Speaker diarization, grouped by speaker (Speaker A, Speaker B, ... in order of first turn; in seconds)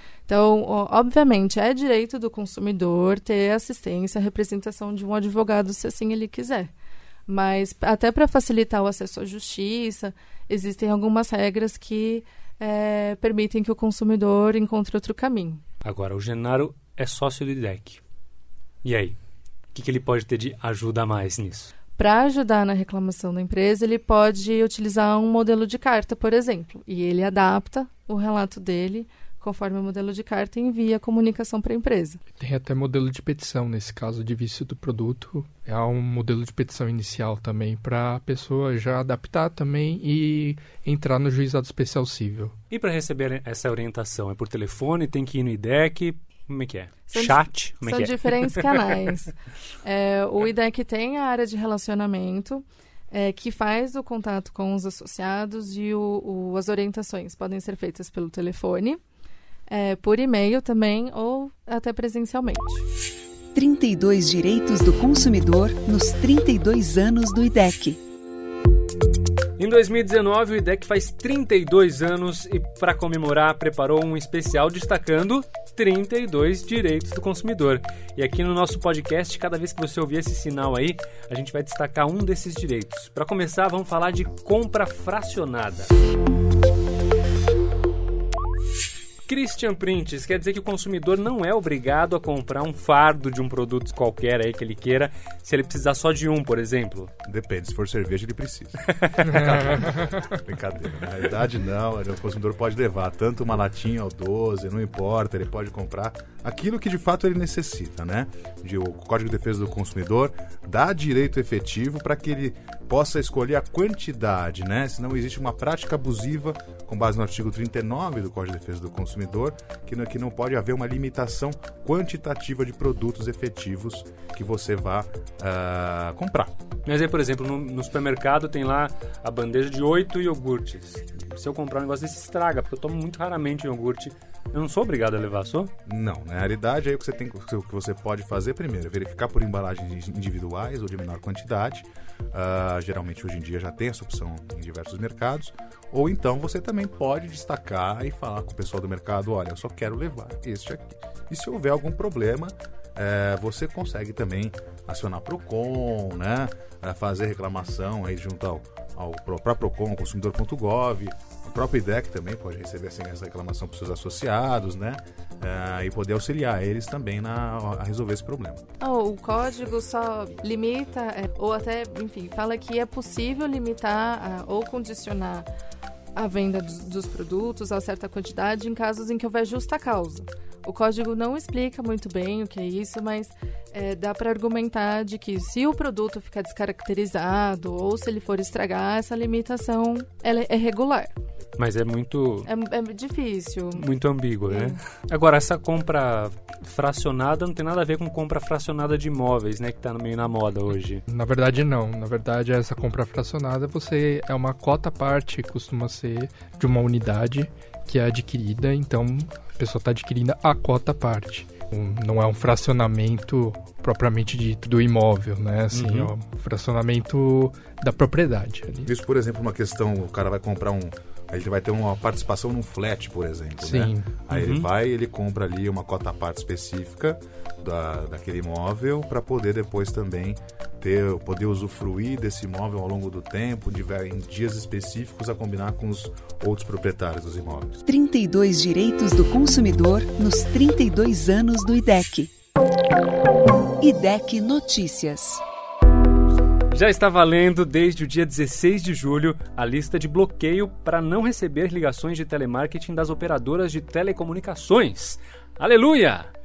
Speaker A: 0.3-6.7, 7.3-15.6, 21.9-32.2, 47.1-59.0, 59.7-62.9, 168.8-175.5, 176.2-191.1, 192.4-193.9, 194.5-194.8
Speaker B: 15.8-18.0, 18.8-19.2, 19.7-21.7, 42.7-49.0, 69.6-85.9, 89.3-97.1, 99.0-99.8, 126.9-135.7, 191.6-192.5, 193.8-201.0, 215.7-216.1, 224.3-224.7, 246.7-256.3
Speaker C: 32.4-42.5, 99.3-100.3, 201.1-218.9, 223.6-224.1
Speaker D: 63.5-68.0, 237.9-242.3, 243.8-245.4
Speaker E: 97.3-126.5, 135.9-168.6, 218.9-237.8